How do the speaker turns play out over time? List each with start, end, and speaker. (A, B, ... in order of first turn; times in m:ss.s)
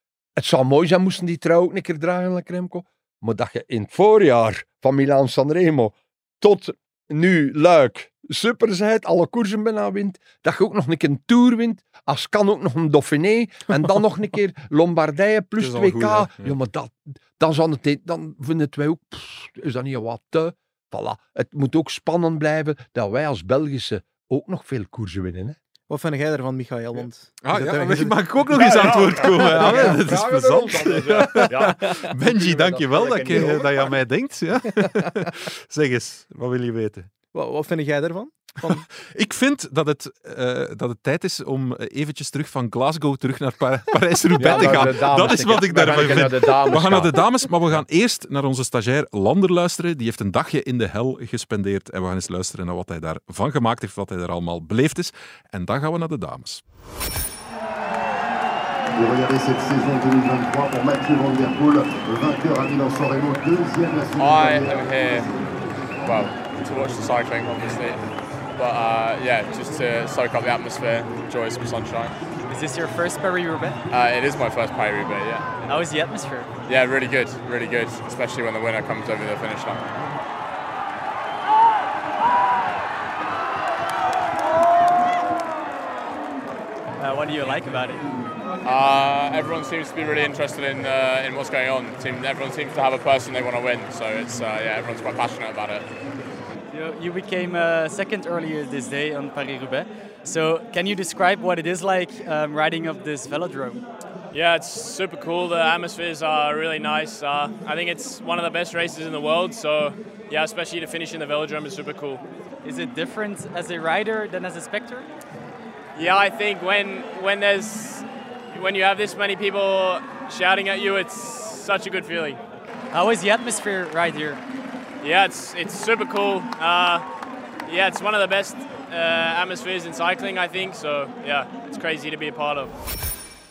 0:00.4-0:25.6 A
0:15.6-0:16.6 B
0:25.9-0:30.0 C
0:27.4-0:37.1 B
0:28.5-0:33.8 A
0:37.3-0:38.8 C
0:38.6-0:56.6 B
0:44.4-0:47.2 A
0:44.5-0:44.8 C
0:58.9-1:05.1 D
1:04.2-1:05.2 E
1:06.0-1:08.0 E
1:08.6-1:12.2 E
1:12.4-1:13.8 F
1:13.9-1:15.5 E
1:15.6-1:16.5 F
1:16.6-1:20.0 E
1:27.0-1:28.1 F
1:28.6-1:35.9 E
1:36.7-1:43.8 F
1:44.3-1:52.2 G
1:52.6-1:55.1 F
1:55.9-2:02.4 G
2:02.9-2:04.4 F
2:05.0-2:07.0 G
2:07.6-2:12.7 G